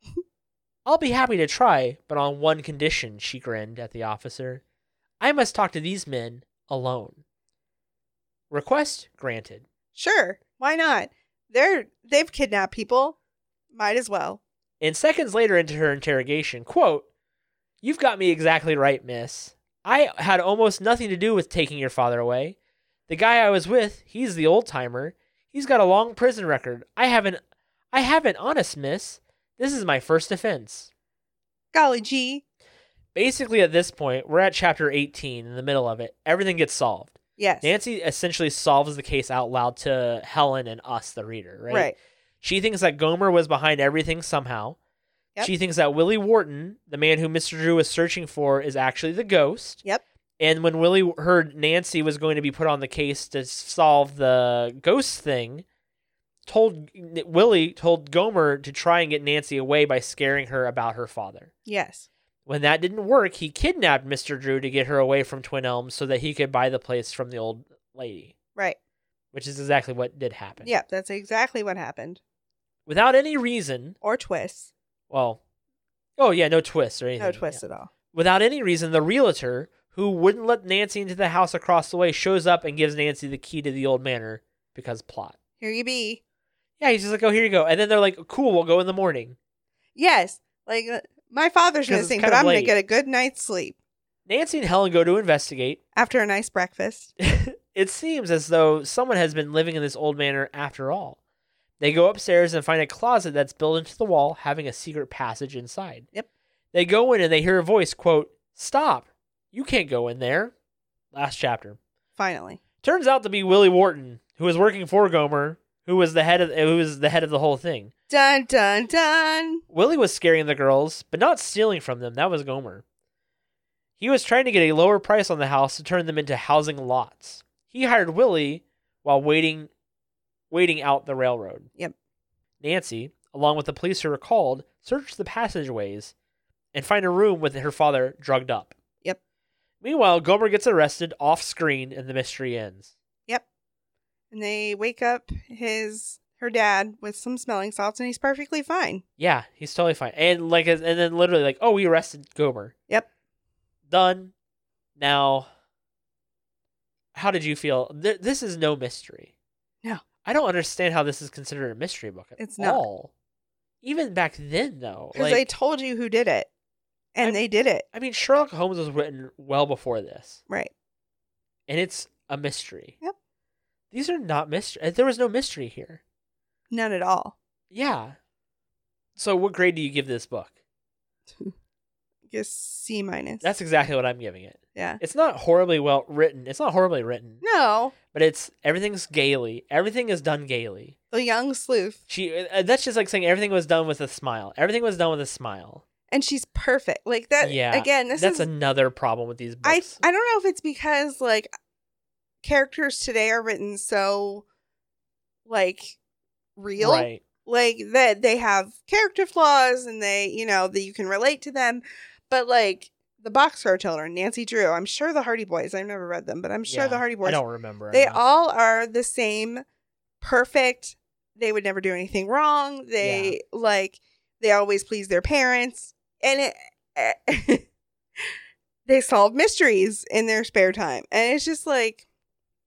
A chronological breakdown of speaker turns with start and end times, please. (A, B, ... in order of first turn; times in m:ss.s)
0:00.8-0:04.6 A
0:05.2-0:07.2 A
0:08.5-0:09.6 A
0:09.9-0:13.2 B
0:13.7-0:14.4 B
0:14.8-0:17.0 A
0:17.8-0:22.6 A
0:23.1-0:27.4 A
0:27.9-0:30.9 A
0:31.7-0:32.4 B
0:33.1-0:44.8 A
0:37.4-0:37.7 B
0:41.7-0:42.0 B
0:45.4-0:49.8 A
0:50.4-0:55.6 A
0:56.4-1:01.5 A
1:01.6-1:02.1 B
1:02.4-1:08.3 A
1:09.3-1:10.7 A
1:10.6-1:12.2 B
1:12.8-1:14.0 A
1:14.0-1:14.7 B
1:15.1-1:15.4 A
1:16.2-1:17.6 A
1:17.2-1:17.9 B
1:18.1-1:25.4 A
1:25.6-1:26.2 B
1:26.8-1:29.4 A
1:30.0-1:33.8 B
1:31.9-1:32.7 A
1:34.2-1:35.8 A
1:35.9-1:37.1 B
1:37.2-1:41.2 A
1:41.8-1:46.1 A
1:46.7-1:50.5 A
1:51.1-1:51.8 A
1:52.2-1:52.6 B
1:52.8-1:57.9 A
1:58.1-1:59.6 B
1:59.7-2:02.8 A
2:04.0-2:09.7 A
2:10.5-2:11.7 A
2:12.6-2:16.1 A
2:16.7-2:18.7 A
2:19.8-2:22.9 A
2:24.3-2:29.0 B
2:29.2-2:32.7 A
2:33.9-2:34.3 A
2:35.0-2:35.5 A
2:37.1-2:39.3 A
2:40.2-2:43.1 A
2:42.4-2:42.8 B
2:43.8-2:45.4 A
2:45.1-2:46.5 B
2:47.1-2:47.8 B
2:47.2-2:50.4 A
2:51.7-2:53.0 A
2:53.9-2:56.0 A
2:56.7-2:57.4 B
2:57.7-2:58.2 A
2:59.2-3:00.5 A
3:02.3-3:03.5 B
3:03.4-3:07.4 A
3:04.7-3:05.0 B
3:07.4-3:07.9 B
3:08.1-3:11.0 A
3:11.1-3:12.0 B
3:12.1-3:15.8 A
3:16.1-3:18.5 B
3:17.4-3:20.0 A
3:19.6-3:21.5 B
3:22.4-3:24.4 B
3:25.4-3:26.0 B
3:26.6-3:37.4 B
3:26.8-3:27.2 A
3:36.7-3:38.2 A
3:37.9-3:39.6 B
3:40.2-3:47.6 B
3:43.0-3:43.4 A
3:48.8-3:52.0 B